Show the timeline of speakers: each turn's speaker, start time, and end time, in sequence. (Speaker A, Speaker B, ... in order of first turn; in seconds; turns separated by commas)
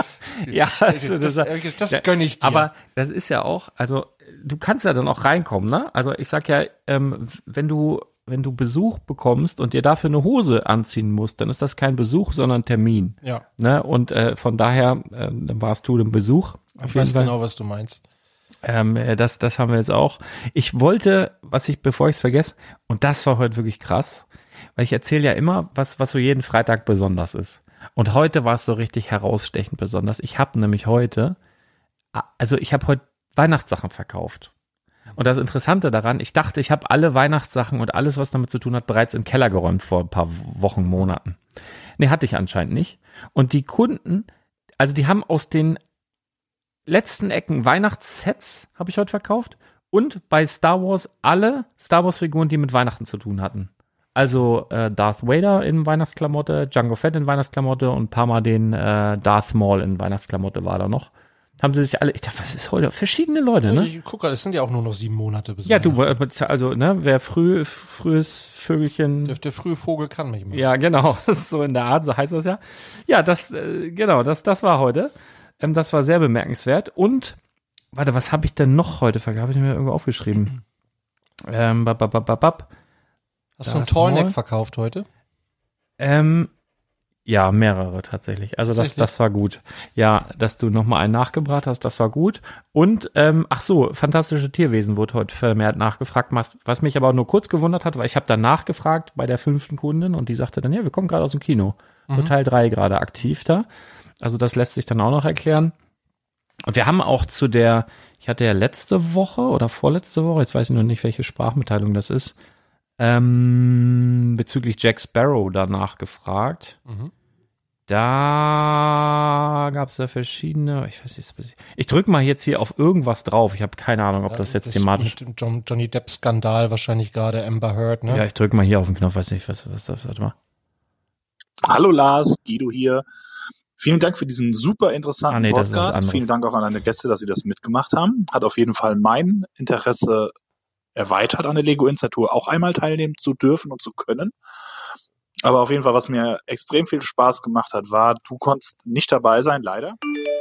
Speaker A: 0.4-17.3, Speaker B: 0.4-2.7, Speaker B: 16.8-18.0, Speaker A: 18.6-24.2, Speaker A: 24.8-31.4, Speaker A: 32.1-34.5, Speaker A: 35.1-41.4, Speaker A: 42.0-45.8, Speaker A: 46.9-63.9, Speaker B: 63.6-66.0, Speaker A: 65.7-69.3, Speaker B: 69.2-70.6, Speaker A: 70.5-77.4, Speaker A: 77.9-80.5, Speaker A: 81.4-82.7, Speaker B: 83.6-85.1, Speaker A: 83.6-84.3, Speaker A: 86.0-86.5, Speaker A: 87.2-103.7, Speaker B: 88.7-89.1, Speaker A: 104.2-105.7, Speaker A: 106.7-112.3, Speaker A: 113.0-116.8, Speaker B: 116.8-117.1, Speaker A: 117.9-125.2, Speaker B: 124.3-128.2, Speaker A: 128.1-130.3, Speaker C: 131.7-133.0, Speaker C: 133.8-140.3, Speaker A: 135.3-136.3, Speaker C: 140.9-144.3, Speaker C: 145.4-149.9